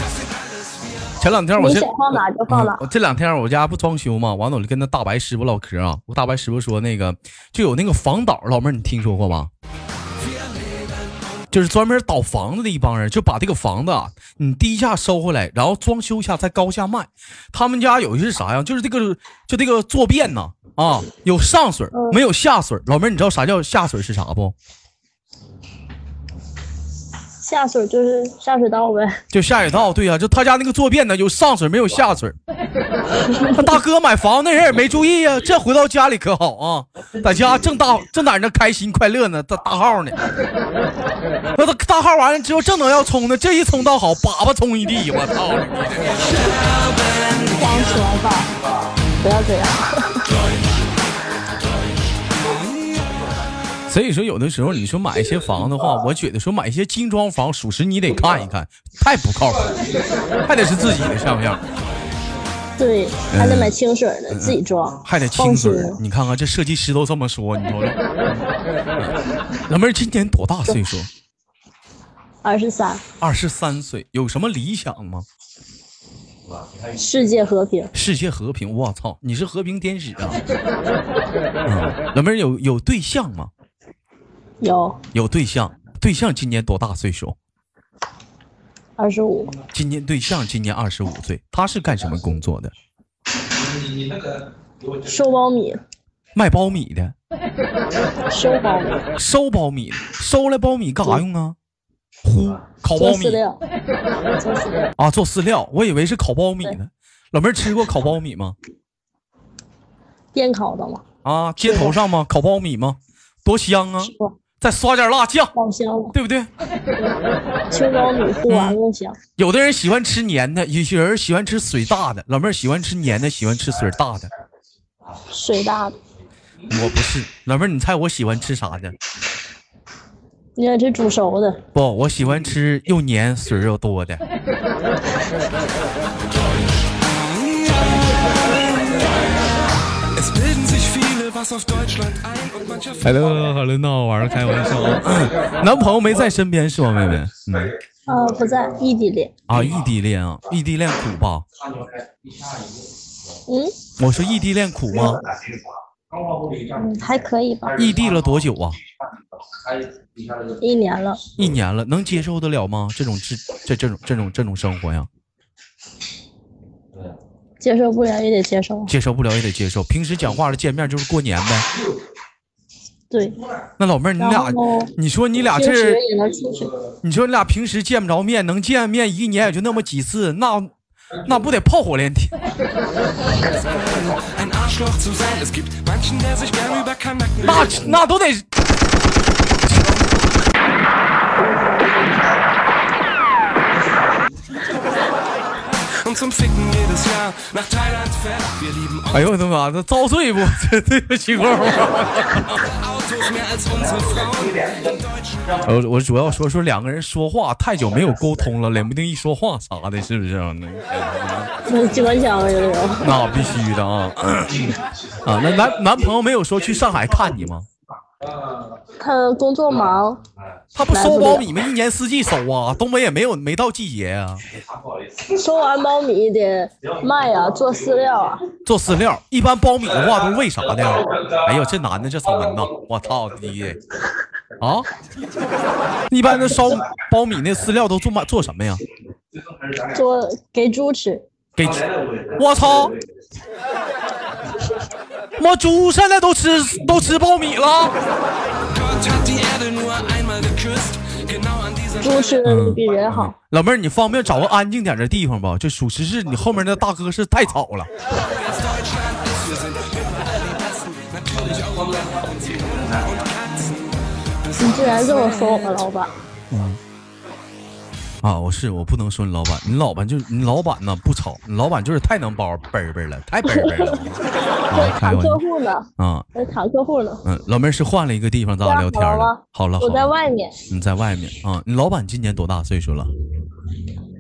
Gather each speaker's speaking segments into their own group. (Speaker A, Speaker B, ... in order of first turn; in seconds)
Speaker A: 1.2-1.9, 2.5-9.5, 11.5-24.5, 29.3-32.4, 33.5-40.2, 41.5-46.4, 53.9-59.8, 60.4-61.6, 63.3-63.8, 64.3-68.5, 69.0-71.1, 73.2-75.3, 77.9-80.4, 81.7-83.5, 85.1-87.3, 89.7-92.7, 96.3-97.2, 99.1-101.6, 102.2-103.4, 105.0-108.5, 111.2-115.5, 116.1-116.5, 118.5-118.8, 119.4-124.3, 126.7-129.0, 131.7-134.2, 143.0-147.8, 149.5-151.5, 154.0-155.2, 157.8-158.8, 161.4-165.1, 168.9-171.7, 173.8-176.0, 177.0-180.7, 181.2-182.4, 187.4-188.5, 199.1-202.6, 205.6-211.5, 213.0-217.7, 220.7-224.4, 228.7-233.8, 234.6-234.9, 236.1-238.8, 241.6-243.0, 245.4-248.0, 252.4-257.9, 266.5-266.8, 268.2-275.4, 276.0-276.2, 277.2-280.1, 280.7-283.1
Speaker B: 1.6-2.8, 21.9-22.2, 27.4-29.2, 47.5-48.5, 49.2-50.3, 62.8-66.0, 72.4-73.0, 76.9-77.9, 84.6-85.0, 89.0-89.6, 95.0-95.8, 98.3-99.0, 102.9-103.6, 104.4-104.9, 110.3-111.0, 111.6-111.9, 114.0-114.3, 115.5-116.1, 117.7-119.2, 125.3-126.0, 130.6-131.6, 148.1-149.3, 153.5-153.7, 156.7-157.8, 160.6-161.2, 167.6-168.9, 173.1-173.4, 174.2-174.9, 175.5-176.7, 211.7-213.1, 219.0-220.2, 220.9-221.5, 225.3-228.4, 239.9-241.2, 252.0-253.3, 264.5-266.1, 273.5-274.0, 274.7-277.2, 278.6-280.6
Speaker C: 140.2-142.9, 184.2-187.4, 196.1-198.3, 203.4-204.5, 248.9-251.2, 261.2-261.9